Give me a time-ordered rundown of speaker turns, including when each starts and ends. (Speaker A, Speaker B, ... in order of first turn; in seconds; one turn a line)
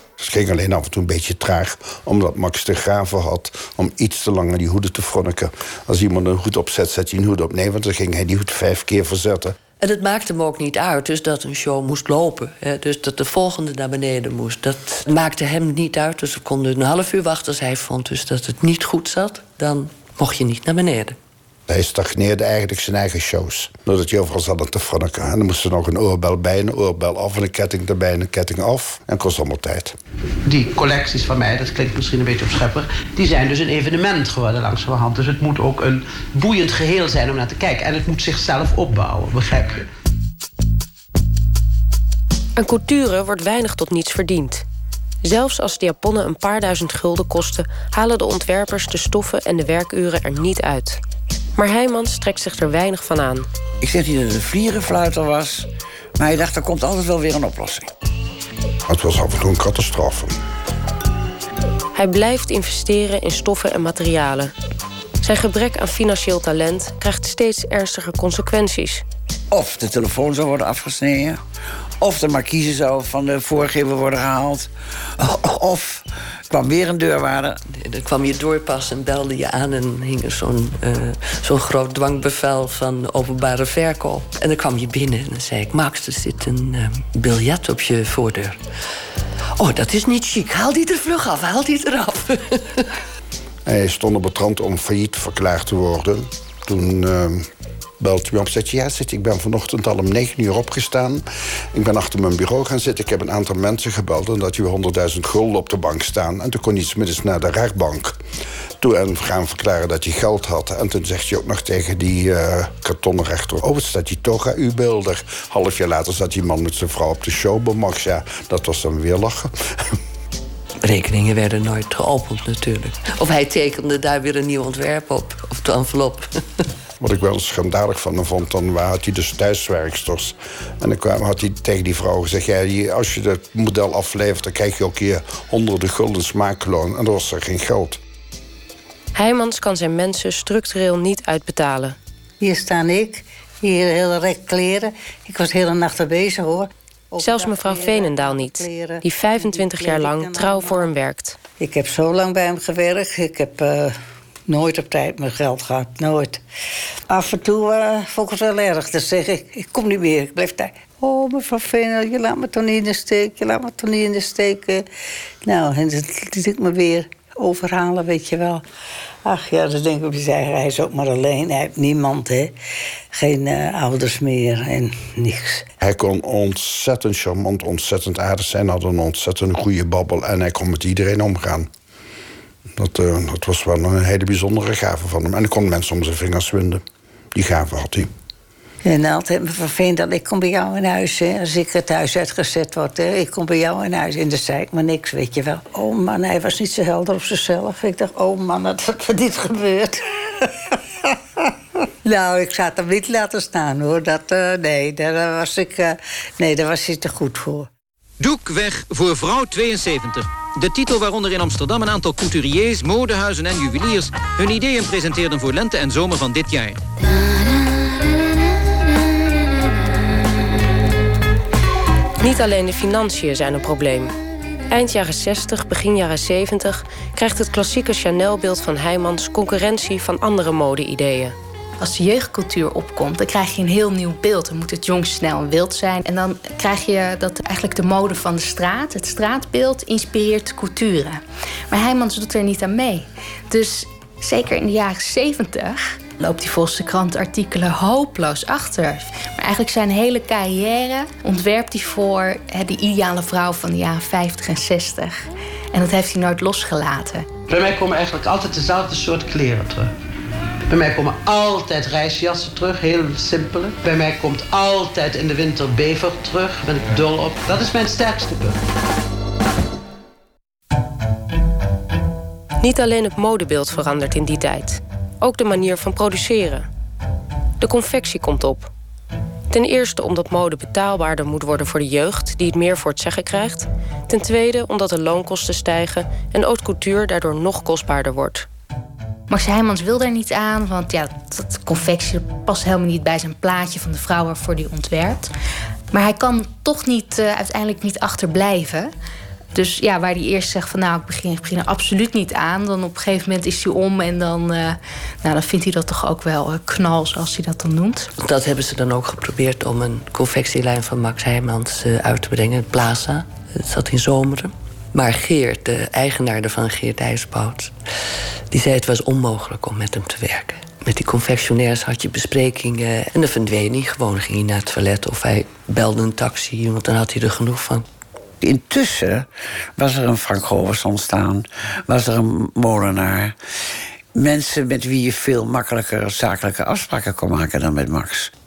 Speaker A: 0.2-9.5
Speaker B: 9.8-21.2
Speaker A: 21.7-29.9
Speaker C: 30.5-39.9
Speaker D: 42.6-44.6
Speaker D: 45.2-51.0
Speaker D: 51.6-53.5
Speaker E: 53.8-57.9
Speaker A: 58.9-60.4
Speaker D: 62.0-64.5
Speaker D: 65.2-69.0
Speaker E: 69.5-71.4
Speaker E: 72.0-77.6
Speaker B: 77.7-88.6
Speaker B: 89.6-92.9
Speaker A: 93.7-97.5
Speaker A: 98.0-108.2
Speaker A: 108.8-119.5
Speaker B: 120.8-126.4
Speaker A: 127.0-138.0
Speaker D: 139.2-142.0
Speaker F: 142.4-150.9
Speaker D: 147.2-151.4
Speaker F: 151.6-154.0
Speaker F: 154.5-156.4
Speaker F: 157.1-164.8
Speaker F: 165.4-168.6
Speaker F: 169.3-172.5
Speaker F: 173.1-175.7
Speaker A: 175.8-181.7
Speaker A: 182.8-186.8
Speaker A: 187.3-188.1
Speaker F: 188.8-200.5
Speaker F: 202.1-207.7
Speaker G: 208.2-216.8
Speaker D: 222.2-224.1
Speaker D: 224.7-231.4
Speaker H: 231.8-257.3
Speaker C: 257.5-259.9
Speaker C: 260.7-268.6
Speaker D: 272.6-276.7
Speaker D: 277.6-278.7
Speaker D: 279.5-288.5
Speaker H: 289.3-295.3
Speaker H: 295.9-298.9
Speaker H: 299.5-308.1
Speaker B: 308.2-317.8
Speaker B: 318.5-327.9
Speaker E: 328.4-333.4
Speaker E: 334.1-338.3